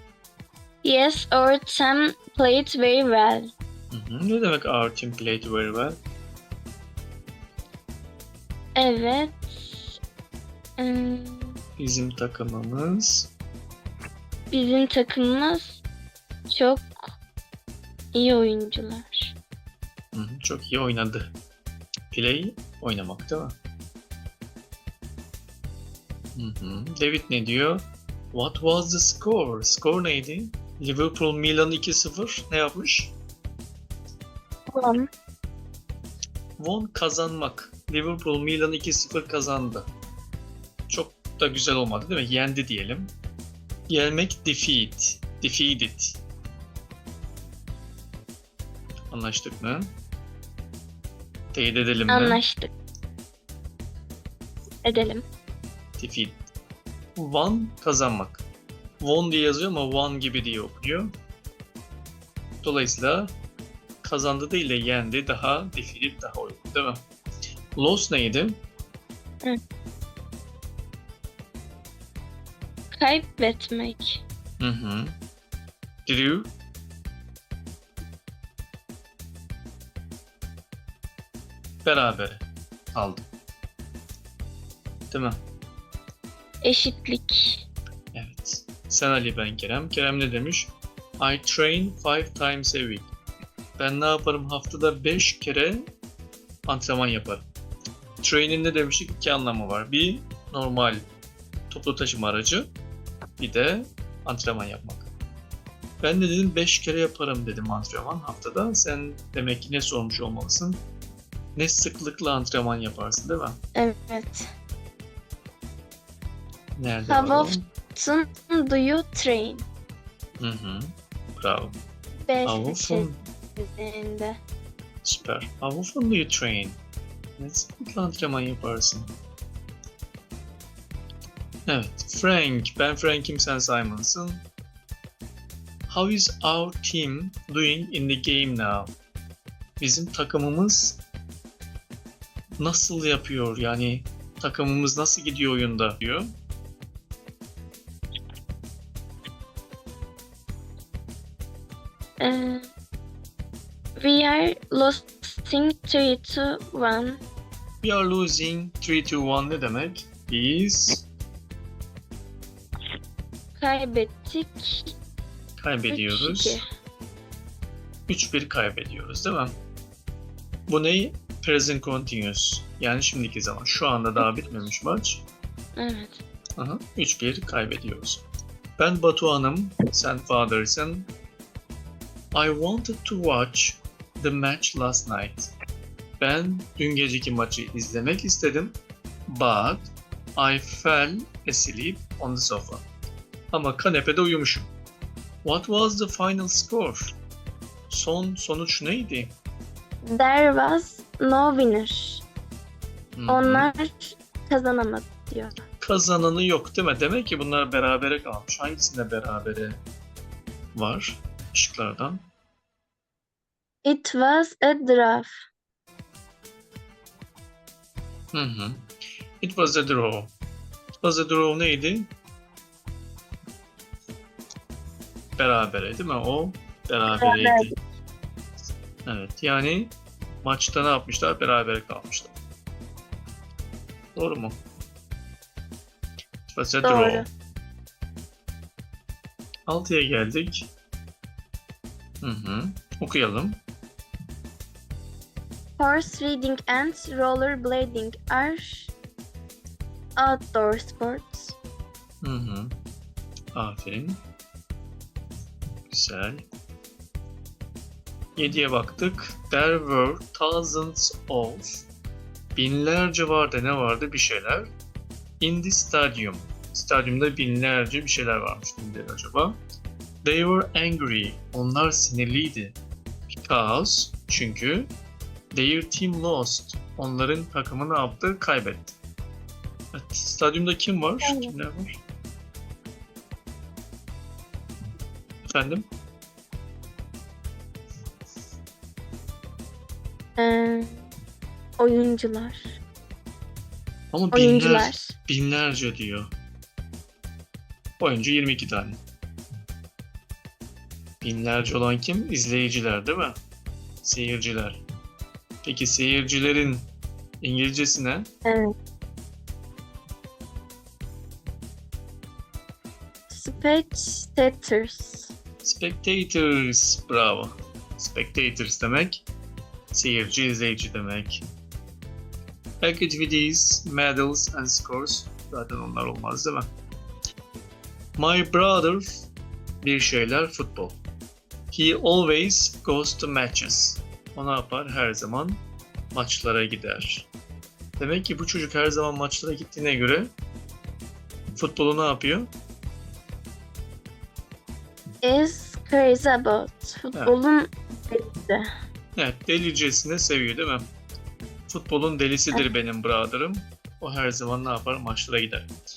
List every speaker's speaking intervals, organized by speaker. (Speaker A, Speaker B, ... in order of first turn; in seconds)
Speaker A: 0.8-3.5, 8.8-10.0, 10.8-11.6, 14.5-15.8, 16.5-17.1, 18.1-19.3, 34.7-35.0, 52.1-52.7, 54.8-55.2, 72.9-74.2, 86.6-87.6, 113.7-114.5, 117.1-119.7, 122.2-124.4, 152.2-152.7, 153.9-157.2, 163.6-164.9, 165.9-166.6, 174.2-174.6, 175.8-176.2, 200.0-202.2, 203.3-205.6, 213.8-215.4, 227.1-227.7, 236.8-237.3, 245.8-248.9, 250.2-251.6, 281.2-281.5, 290.4-291.1, 291.8-292.8, 294.3-295.1, 308.4-308.7, 313.3-315.3, 345.2-348.7
Speaker B: 3.9-6.0, 11.8-13.3, 20.1-21.3, 22.1-23.6, 26.3-33.1, 36.6-39.9, 40.9-43.1, 43.9-46.2, 49.1-49.9, 51.5-52.4, 56.0-56.4, 57.1-58.4, 59.0-61.1, 62.6-63.3, 64.0-67.0, 67.8-68.6, 74.6-75.2, 76.0-76.5, 81.8-83.2, 85.1-85.4, 88.1-93.1, 93.8-95.8, 96.7-97.5, 98.2-101.0, 101.7-102.7, 103.4-105.1, 106.0-110.8, 111.5-113.6, 116.8-117.6, 120.4-121.8, 122.4-123.2, 125.0-126.8, 127.4-129.1, 131.7-134.4, 135.9-138.9, 139.8-141.0, 142.6-146.3, 157.8-161.0, 165.6-166.6, 168.1-169.5, 170.7-175.2, 176.6-178.2, 178.8-181.1, 182.3-185.5, 186.2-188.8, 189.3-192.8, 193.5-194.7, 195.4-197.2, 197.9-199.3, 203.2-203.7, 205.8-209.8, 210.7-212.2, 218.3-218.9, 219.4-220.3, 221.0-222.1, 225.4-227.7, 229.1-232.3, 234.2-234.6, 236.5-237.3, 239.7-240.7, 242.2-243.6, 252.2-252.7, 253.5-254.2, 255.9-256.4, 258.4-261.8, 262.6-264.7, 265.4-269.6, 270.2-272.8, 273.4-274.9, 275.5-278.9, 279.9-282.0, 285.5-285.9, 294.1-296.3, 298.0-299.0, 301.2-303.4, 304.0-304.8, 305.6-306.9, 307.4-308.3, 315.6-319.2, 319.9-321.4, 322.8-326.7, 328.2-329.2, 329.8-331.0, 331.7-335.6, 336.1-337.3, 338.0-340.3, 341.6-342.5, 349.2-350.9, 351.7-355.7